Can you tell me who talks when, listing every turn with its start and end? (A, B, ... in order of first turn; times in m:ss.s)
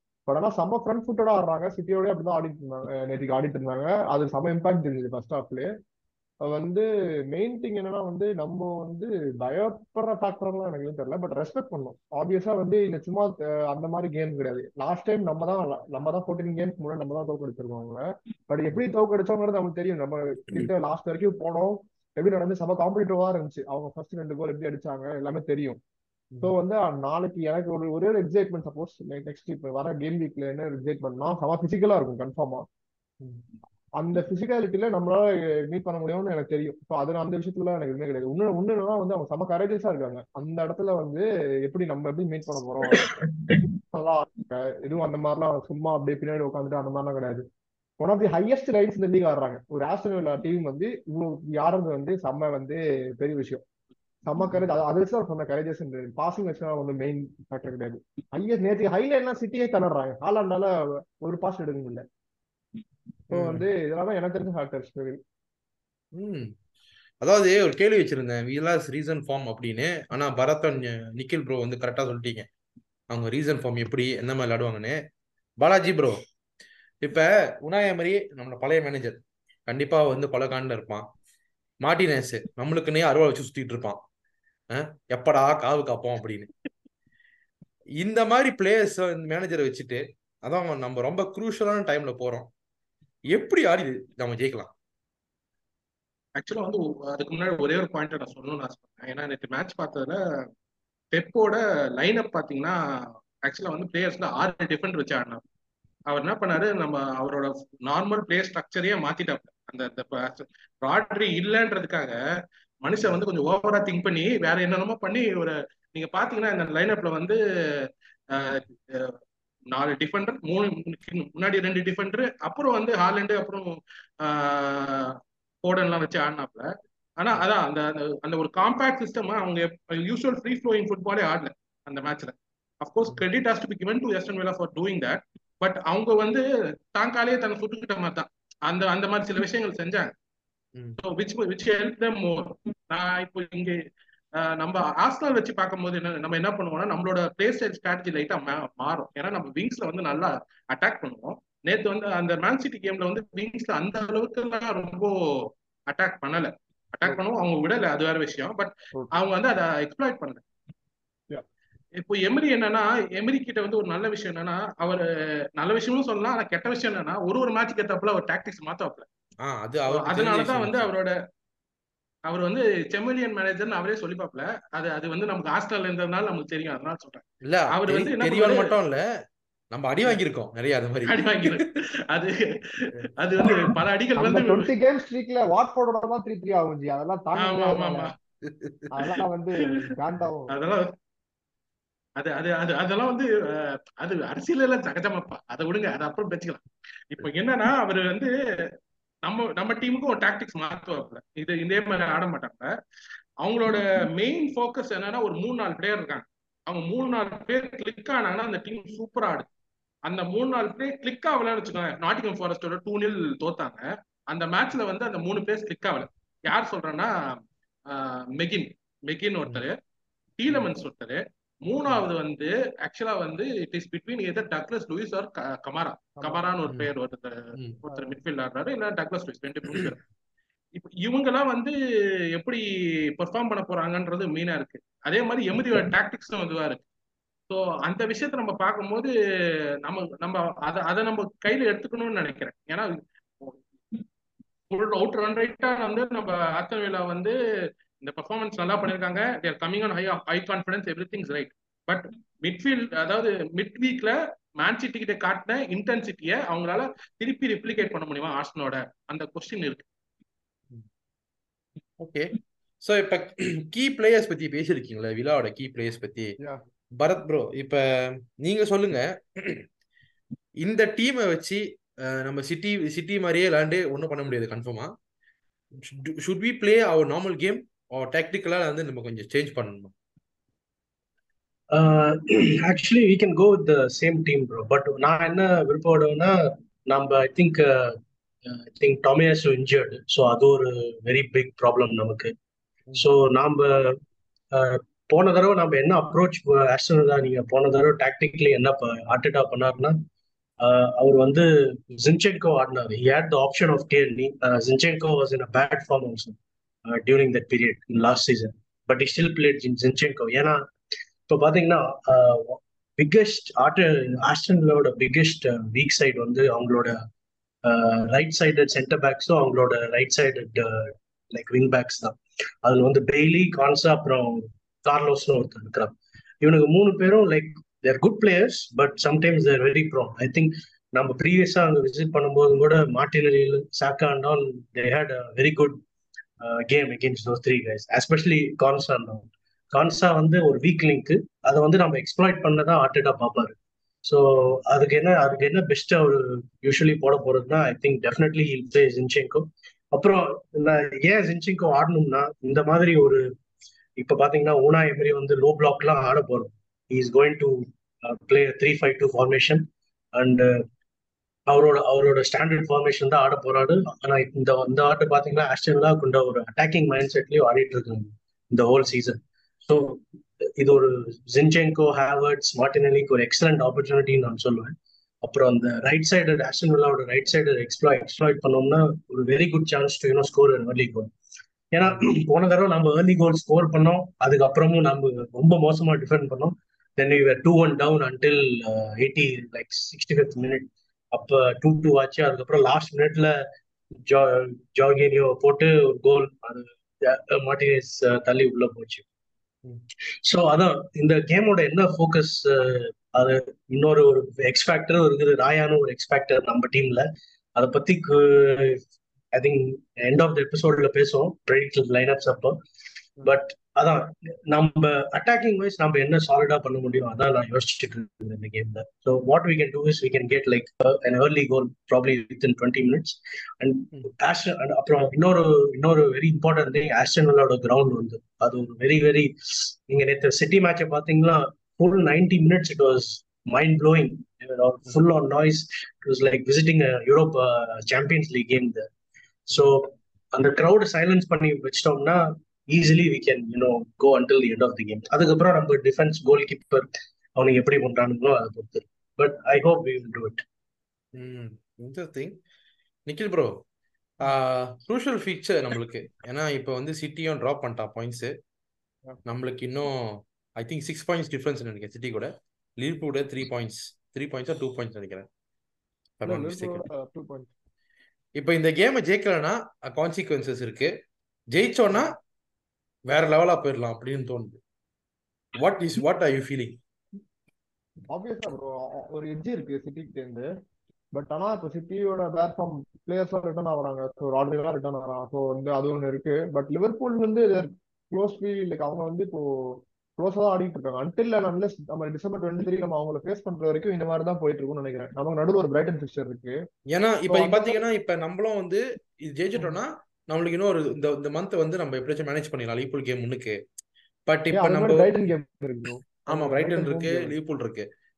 0:00.3-0:05.7 A
0:06.4-0:25.8 A
0:26.4-0:32.6 A
0:34.0-0:43.1 A
0:43.9-0:47.4 A
0:48.0-0:53.6 A
0:54.3-1:02.0 A
1:03.3-1:05.2 A
1:03.3-1:03.7 B
1:06.1-1:06.5 B
1:07.2-1:12.5 B
1:13.1-1:15.0 B
1:15.6-1:16.2 B
1:17.0-1:21.0 B
1:21.8-1:24.0 B
1:24.7-1:26.5 B
1:28.0-1:32.5 B
1:33.3-1:34.7 B
1:36.4-1:40.2 C
1:41.1-1:45.4 C
1:46.1-1:52.2 C
1:52.8-1:59.2 C
1:59.7-2:06.7 C
2:07.2-2:20.1 C
2:21.0-2:23.8 C
2:24.4-2:40.4 C
2:42.0-2:45.0 C
2:45.6-2:49.1 C
2:49.4-2:50.9 B
2:49.9-2:51.1 C
2:52.3-2:58.7 C
2:57.4-2:59.0 B
2:59.7-3:01.6 B
3:01.1-3:04.7 C
3:04.2-3:08.1 A
3:07.4-3:08.1 C
3:08.4-3:08.9 B
3:08.9-3:10.5 A
3:10.5-3:10.9 C
3:12.2-3:18.3 C
3:19.2-3:22.7 C
3:23.4-3:29.5 C
3:30.1-3:39.8 C
3:40.4-3:50.0 C
3:46.2-3:46.5 A
3:47.9-3:48.1 A
3:50.7-3:51.8 C
3:52.3-3:56.8 C
3:57.5-3:59.1 C
3:59.8-4:02.9 C
4:03.4-4:04.0 C
4:04.7-4:07.4 C
4:08.0-4:19.8 C
4:22.0-4:26.4 B
4:27.0-4:29.7 B
4:30.6-4:34.9 B
4:35.8-4:39.9 B
4:41.7-4:52.3 D
4:53.0-4:54.0 D
4:54.5-5:00.0 D
5:00.6-5:10.6 D
5:11.3-5:17.0 D
5:17.6-5:35.8 D
5:36.4-5:53.3 D
5:54.0-6:00.7 D
6:01.5-6:10.0 D
6:10.6-6:21.1 D
6:21.7-6:33.3 D
6:34.1-6:39.0 D
6:40.2-6:52.6 D
6:53.2-7:18.9 D
7:19.5-7:30.4 D
7:31.1-7:32.4 B
7:33.1-7:33.6 B
7:34.2-7:38.3 B
7:39.3-7:45.3 B
7:46.2-7:46.8 B
7:46.2-7:47.5 A
7:48.4-7:50.9 B
7:51.5-7:52.2 B
7:53.1-7:54.6 B
7:55.6-7:56.8 B
7:58.1-8:00.5 A
8:01.1-8:16.6 A
8:16.9-8:23.6 B
8:17.3-8:17.8 A
8:24.3-8:25.1 B
8:24.5-8:27.3 A
8:26.3-8:27.9 B